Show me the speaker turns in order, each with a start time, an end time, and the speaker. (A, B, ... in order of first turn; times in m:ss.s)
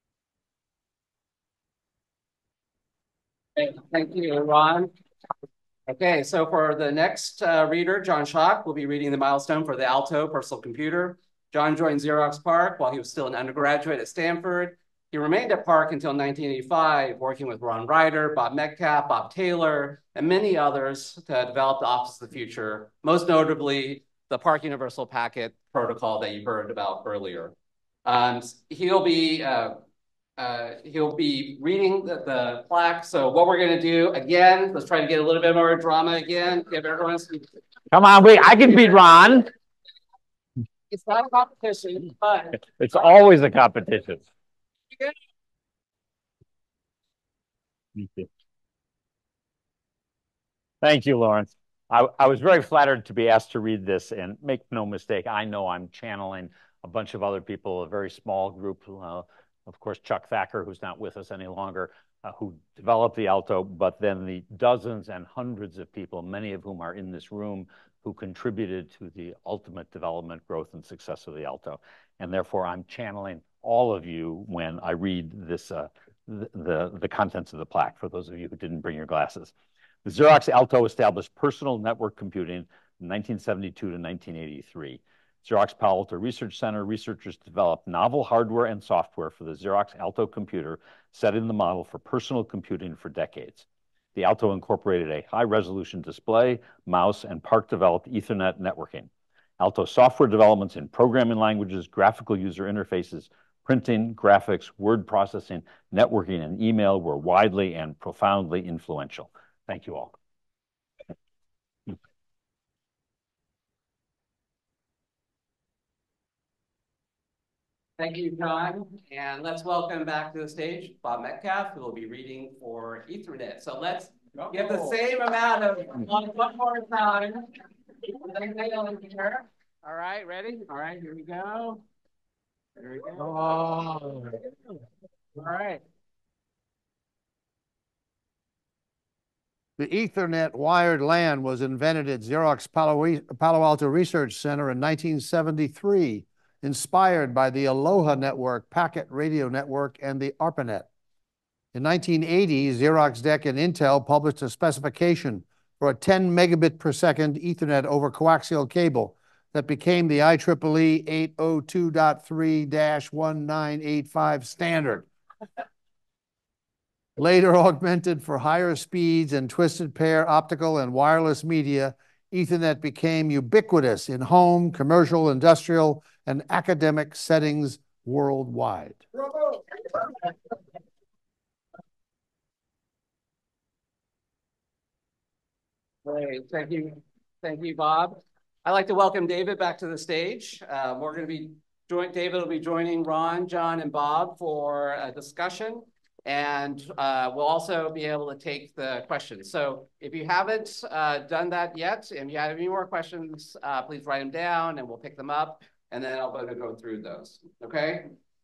0:03.6-0:04.9 A
0:05.9-0:27.5 A
0:28.0-0:29.8 A
0:30.4-0:37.5 A
0:37.9-0:39.5 B
0:40.9-0:42.5 A
0:42.8-0:44.2 B
0:48.0-0:48.3 B
0:50.8-1:19.5 B
1:20.0-1:50.1 B
1:58.0-2:07.5 A
2:08.1-2:11.8 A
2:12.8-2:13.7 A
2:13.2-2:14.0 C
2:15.3-2:15.8 A
2:19.8-2:30.9 C
2:31.7-2:45.0 C
2:47.2-2:59.1 C
3:06.0-3:28.1 A